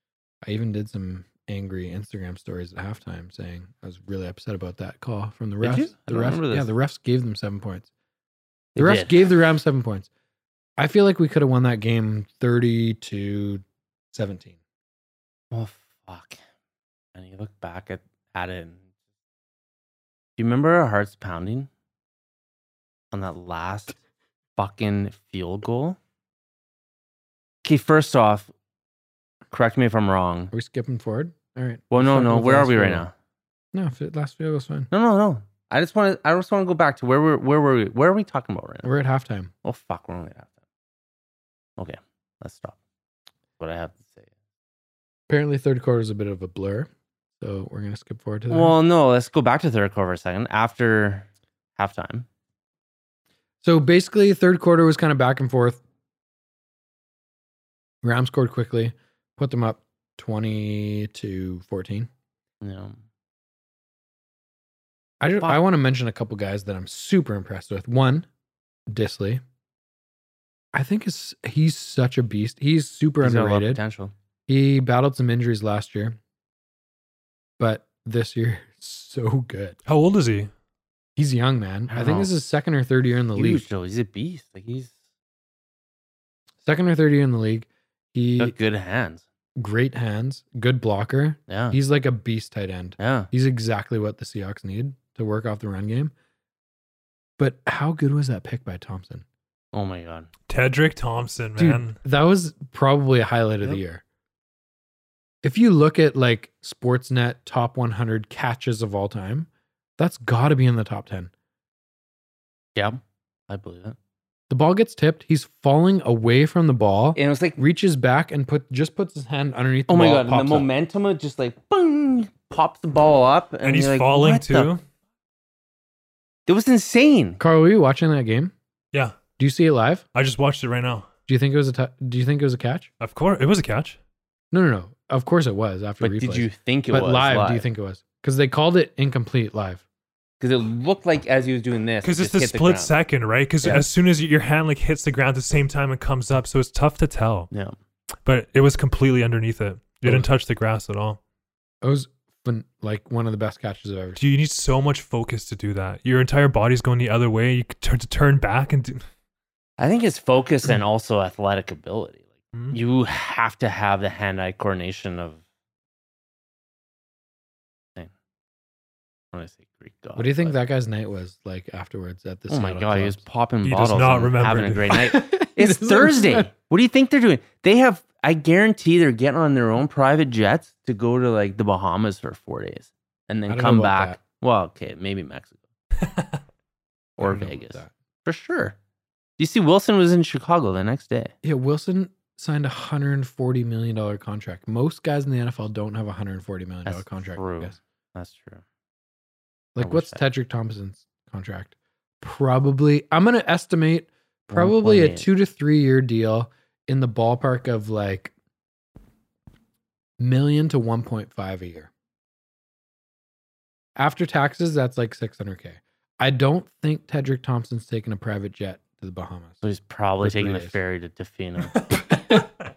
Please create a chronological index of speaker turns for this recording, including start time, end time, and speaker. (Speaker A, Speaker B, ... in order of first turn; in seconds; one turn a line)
Speaker A: 0.4-7.9
Speaker B: 5.6-6.7
Speaker B: 8.8-9.2
Speaker A: 8.8-10.1
Speaker A: 10.8-14.6
Speaker B: 15.5-16.4
Speaker B: 17.1-18.8
Speaker B: 20.4-21.7
Speaker B: 23.1-24.0
Speaker B: 24.6-26.0
Speaker B: 27.6-28.5
Speaker B: 29.5-30.5
Speaker A: 30.5-33.0
Speaker B: 31.9-33.1
Speaker A: 33.7-34.9
Speaker B: 34.9-38.9
Speaker A: 38.8-39.5
Speaker B: 39.6-40.5
Speaker B: 41.8-42.8
Speaker B: 43.6-44.3
Speaker A: 45.3-48.8
Speaker B: 48.5-52.3
Speaker A: 53.6-55.8
Speaker A: 58.0-62.1
Speaker B: 62.6-63.0
Speaker A: 65.2-68.3
Speaker A: 68.9-69.4
Speaker A: 70.7-73.8
Speaker B: 73.2-74.1
Speaker A: 74.5-76.2
Speaker A: 77.6-79.8
Speaker C: 79.8-80.5
Speaker A: 81.2-83.7
Speaker B: 81.9-82.3
Speaker B: 83.3-84.9
Speaker A: 86.6-88.5
Speaker B: 88.4-89.2
Speaker A: 89.5-96.1
Speaker B: 91.5-91.8
Speaker B: 93.0-93.3
Speaker A: 97.4-99.2
Speaker B: 99.7-100.3
Speaker C: 100.5-102.0
Speaker A: 101.6-104.0
Speaker A: 105.4-111.3
Speaker B: 112.8-114.0
Speaker A: 114.5-120.7
Speaker B: 117.1-117.6
Speaker B: 119.9-124.7
Speaker C: 123.6-124.8
Speaker B: 126.5-127.4
Speaker A: 127.4-128.5
Speaker A: 129.4-130.0
Speaker C: 130.1-131.1
Speaker A: 131.3-132.9
Speaker C: 133.0-134.0
Speaker A: 134.5-139.8
Speaker B: 136.0-137.7
Speaker B: 140.4-142.9
Speaker C: 142.0-147.5
Speaker C: 148.2-151.2
Speaker A: 151.8-154.2
Speaker C: 154.2-159.0
Speaker B: 159.8-165.4
Speaker B: 169.3-170.5
Speaker A: 170.2-173.2
Speaker B: 172.5-185.6
Speaker C: 173.6-174.9
Speaker A: 174.9-176.5
Speaker A: 183.5-184.2
Speaker A: 187.2-187.9
Speaker B: 187.2-188.8
Speaker B: 189.4-191.3
Speaker A: 191.4-197.8
Speaker B: 196.8-198.6
Speaker A: 199.7-208.3
Speaker B: 199.8-200.2
Speaker B: 204.5-205.3
Speaker A: 210.2-211.9
Speaker A: 213.9-219.6
Speaker B: 219.6-221.8
Speaker A: 220.2-220.7
Speaker A: 222.1-222.4